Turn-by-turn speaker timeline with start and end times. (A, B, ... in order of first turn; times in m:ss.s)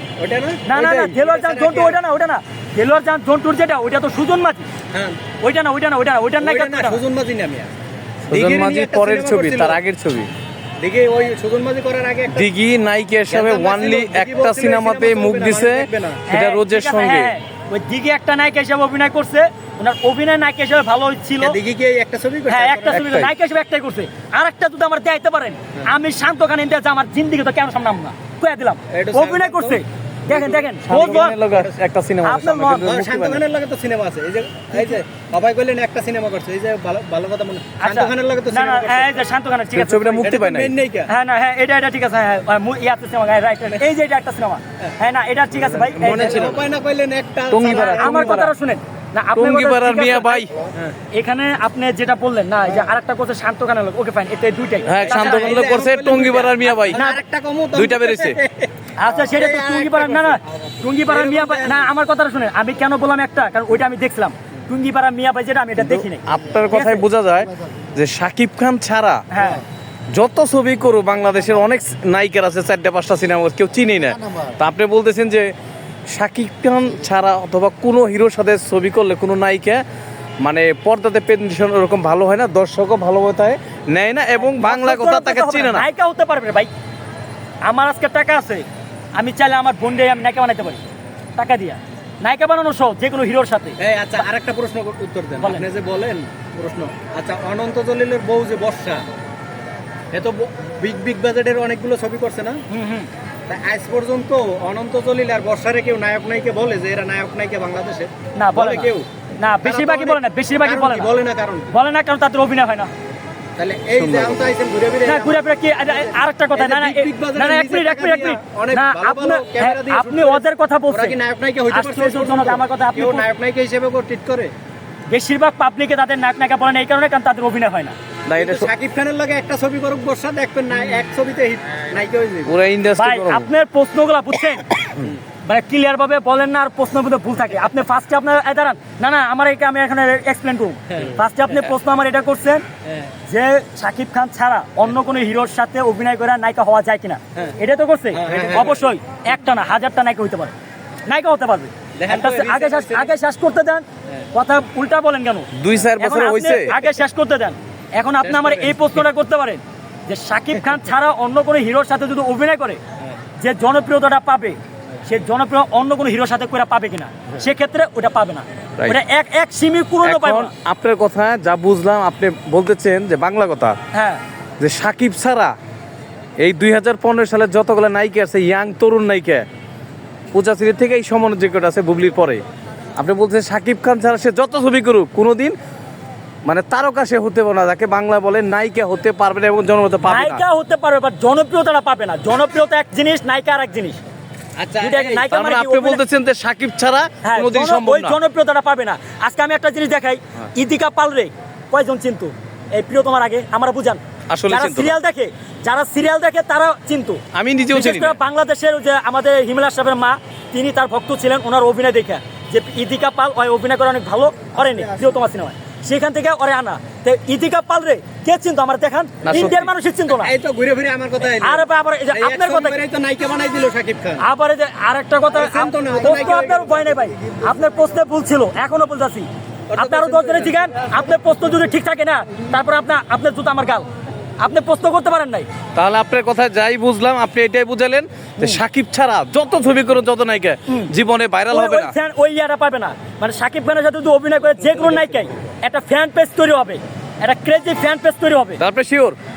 0:00.2-0:02.0 A
0:00.6-0:04.7 B
0:05.4-0:07.0 B
0:06.4-0:07.7 A
0:08.3-0:10.3 C
0:08.3-0:09.8 A
0:10.8-0:12.5 A
0:12.3-0:17.3 C
0:13.3-0:16.2 A
0:16.3-0:21.6 B
0:21.4-0:23.1 A
0:22.5-0:31.4 B
0:22.9-0:23.3 C
0:28.9-0:29.8 A
0:30.3-0:33.4 C
0:30.9-0:31.7 A
0:32.2-0:32.9 B
0:32.7-0:39.2 A
0:37.8-0:40.2 B
0:39.7-0:40.7 C
0:40.2-0:41.1 A
0:41.1-0:46.6 B
0:45.5-0:46.6 C
0:46.0-0:48.5 A
0:47.5-0:48.5 C
0:47.7-0:50.4 B
0:49.4-0:50.5 C
0:51.1-0:55.5 B
0:54.8-0:57.0 C
0:54.9-1:00.4 A
0:56.8-0:57.2 B
0:57.7-0:58.4 C
0:59.0-1:07.0 B
1:01.1-1:01.9 A
1:05.8-1:09.2 C
1:09.3-1:09.6 B
1:10.1-1:15.5 C
1:16.1-1:19.8 C
1:20.4-1:25.8 C
1:24.3-1:26.7 B
1:27.6-1:30.8 B
1:31.4-1:33.8 B
1:33.8-1:39.0 A
1:35.4-1:35.6 B
1:40.1-1:42.6 A
1:42.7-1:43.1 B
1:43.5-1:49.1 A
1:48.4-1:51.1 B
1:49.6-1:51.7 A
1:51.7-1:52.9 B
1:53.6-2:04.5 A
1:54.0-1:54.4 C
1:55.0-2:01.1 B
2:01.7-2:03.2 B
2:05.1-2:07.9 B
2:08.3-2:08.7 C
2:08.3-2:12.5 A
2:12.5-2:13.5 C
2:13.0-2:14.7 B
2:15.4-2:22.6 B
2:23.3-2:30.5 B
2:28.1-2:28.9 A
2:31.0-2:42.8 B
2:32.0-2:33.1 A
2:35.6-2:36.8 C
2:38.2-2:38.9 A
2:43.4-2:50.5 B
2:50.0-2:53.8 C
2:53.9-2:54.2 B
2:54.6-2:55.5 C
2:56.4-2:59.4 C
3:00.3-3:02.4 C
3:03.0-3:05.5 C
3:06.4-3:10.4 C
3:10.0-3:14.0 B
3:14.6-3:15.2 A
3:14.8-3:16.0 B
3:15.3-3:18.2 C
3:17.2-3:27.2 B
3:24.3-3:24.9 C
3:27.3-3:28.2 C
3:27.7-3:40.3 B
3:34.7-3:35.1 A
3:39.2-3:39.7 C
3:40.1-3:44.2 A
3:41.4-3:42.8 B
3:44.2-3:53.8 B
3:45.3-3:47.1 A
3:49.7-3:51.2 A
3:54.4-3:55.5 B
3:55.7-4:01.9 C
4:00.7-4:00.9 B
4:01.5-4:08.6 B
4:08.6-4:09.2 C